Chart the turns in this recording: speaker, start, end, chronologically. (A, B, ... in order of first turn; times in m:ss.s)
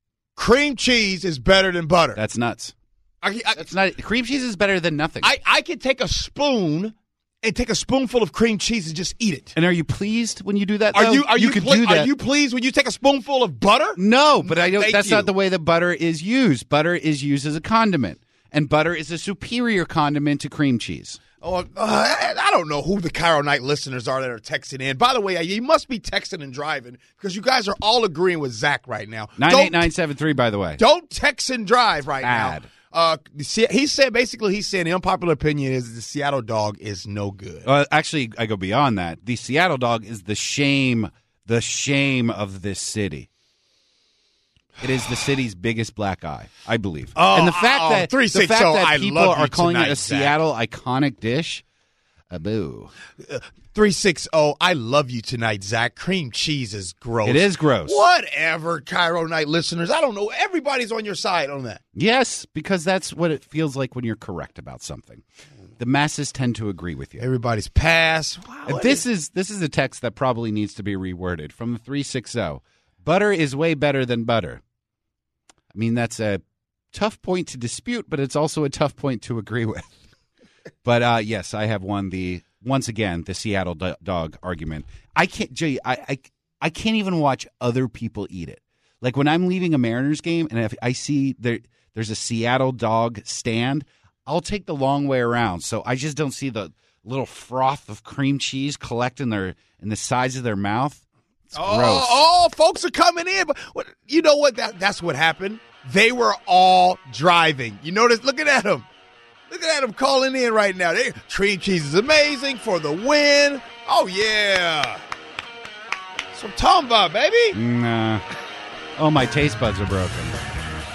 0:00.4-0:02.2 A
0:02.2-0:02.8 B
0:03.2-0:03.6 A
0:03.5-0:05.3 B
0:05.2-0:09.5 A
0:09.5-0:12.1 B
0:10.9-0:15.3 A
0:14.0-0:21.2 B
0:21.4-0:29.9 A
0:29.4-0:30.8 B
0:30.8-0:37.7 A
0:32.2-0:32.7 B
0:37.6-0:43.3 B
0:44.8-0:51.6 B
0:47.2-0:50.4 A
0:52.3-0:52.9 B
0:53.2-1:01.8 A
0:57.2-0:58.0 B
1:01.9-1:05.2 B
1:05.8-1:07.2 B
1:07.2-1:09.0 A
1:08.7-1:14.6 B
1:15.7-1:16.4 B
1:16.9-1:20.0 B
1:20.8-1:42.2 B
1:41.5-1:48.9 A
1:49.5-1:55.0 A
1:56.3-1:57.6 A
1:57.5-1:58.2 B
1:59.0-2:00.4 B